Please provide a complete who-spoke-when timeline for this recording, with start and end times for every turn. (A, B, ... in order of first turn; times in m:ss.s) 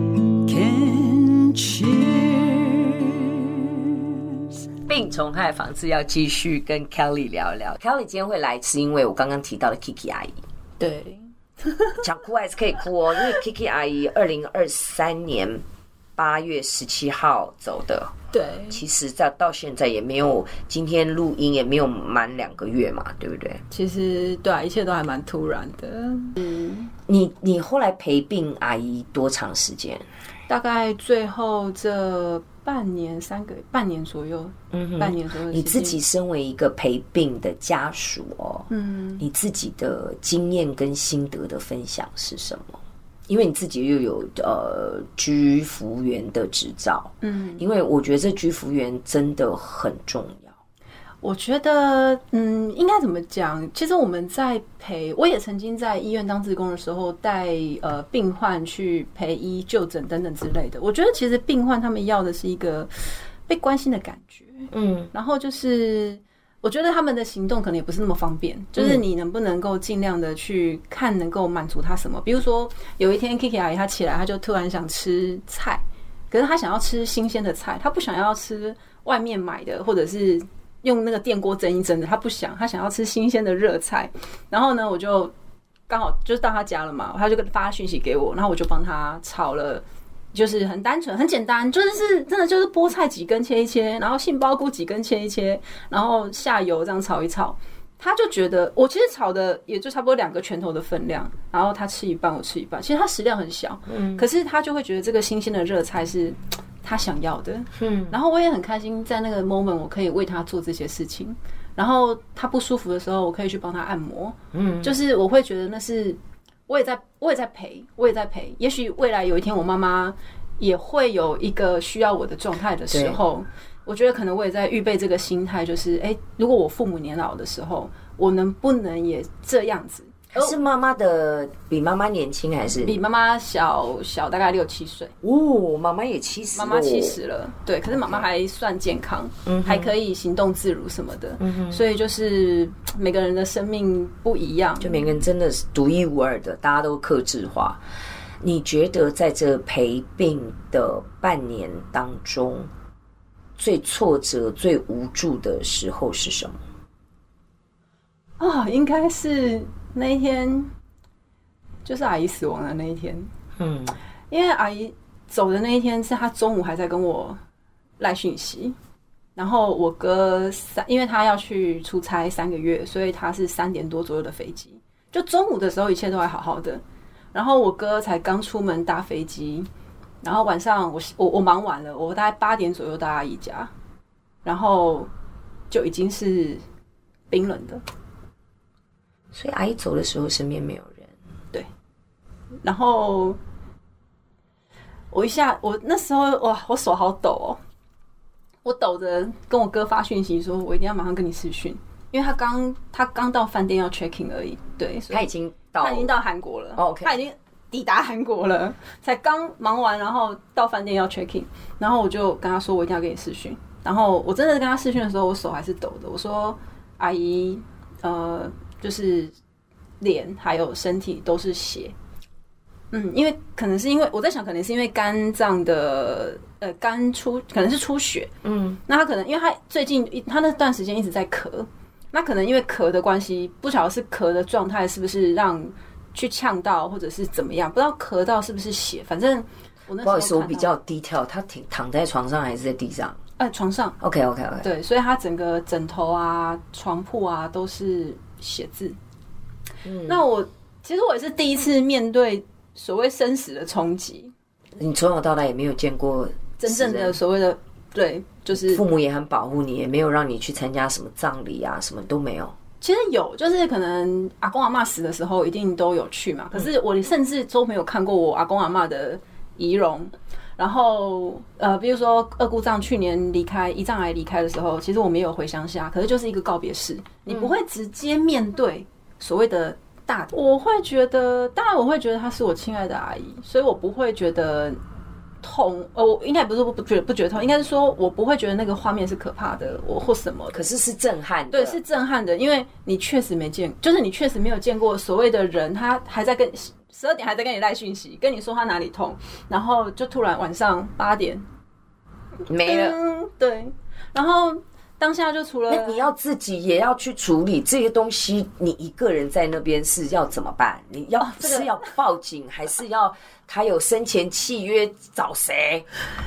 0:00.4-0:03.2 A
0:04.8-0:10.4 A
0:10.8-0:12.0 B
0:12.0-0:15.6 A
0:16.2-0:18.1 A
0:18.3-0:18.8 B
0:18.7-0:23.6 A
0:23.7-0:26.9 B
0:27.1-0:30.0 A
0:30.5-0:36.0 B
0:34.7-0:38.7 A
0:38.7-0:39.2 B
0:39.2-0:50.5 A
0:47.2-0:47.6 B
0:51.2-1:25.3 B
1:04.7-1:05.1 A
1:08.8-1:09.0 A
1:25.9-2:10.6 B
1:43.9-1:44.2 A
1:47.7-1:48.2 A
1:54.5-1:54.9 A
2:02.9-2:03.2 A
2:10.3-2:13.0 A
2:12.8-2:15.1 B
2:15.2-2:17.2 A
2:16.5-2:25.0 B
2:17.9-2:18.3 A
2:19.4-2:19.9 A
2:21.4-2:21.8 A
2:24.8-2:27.8 A
2:28.4-2:32.7 A
2:33.6-2:36.6 A
2:38.4-2:40.7 B
2:41.8-2:43.3 B
2:43.6-2:44.0 A
2:44.3-2:47.4 B
2:48.0-2:48.7 B
2:49.4-2:56.8 B
2:57.3-2:59.7 B
3:00.2-3:03.7 B
3:04.4-3:05.1 B
3:05.7-3:06.6 B
3:07.3-3:07.8 B
3:09.3-3:11.1 A
3:12.6-3:13.4 B
3:15.1-3:17.6 B
3:18.6-3:25.2 B
3:25.1-3:26.1 A
3:25.8-3:39.3 B
3:26.8-3:27.1 A
3:40.0-3:41.9 B
3:42.9-3:48.3 B
3:48.4-3:48.8 A
3:48.8-4:00.7 B
4:00.0-4:03.2 A
4:03.4-4:04.0 B
4:04.0-4:04.7 A
4:04.6-4:09.0 B
4:09.8-4:10.2 A
4:10.0-4:14.3 B
4:14.8-4:17.2 A
4:16.6-4:18.8 B
4:18.5-4:22.5 A
4:22.8-4:44.8 B
4:45.4-4:50.7 B
4:50.5-4:51.8 A
4:51.5-5:01.4 B
5:02.5-5:03.0 A
5:02.6-5:06.1 B
5:05.7-5:15.8 A
5:11.2-5:11.9 B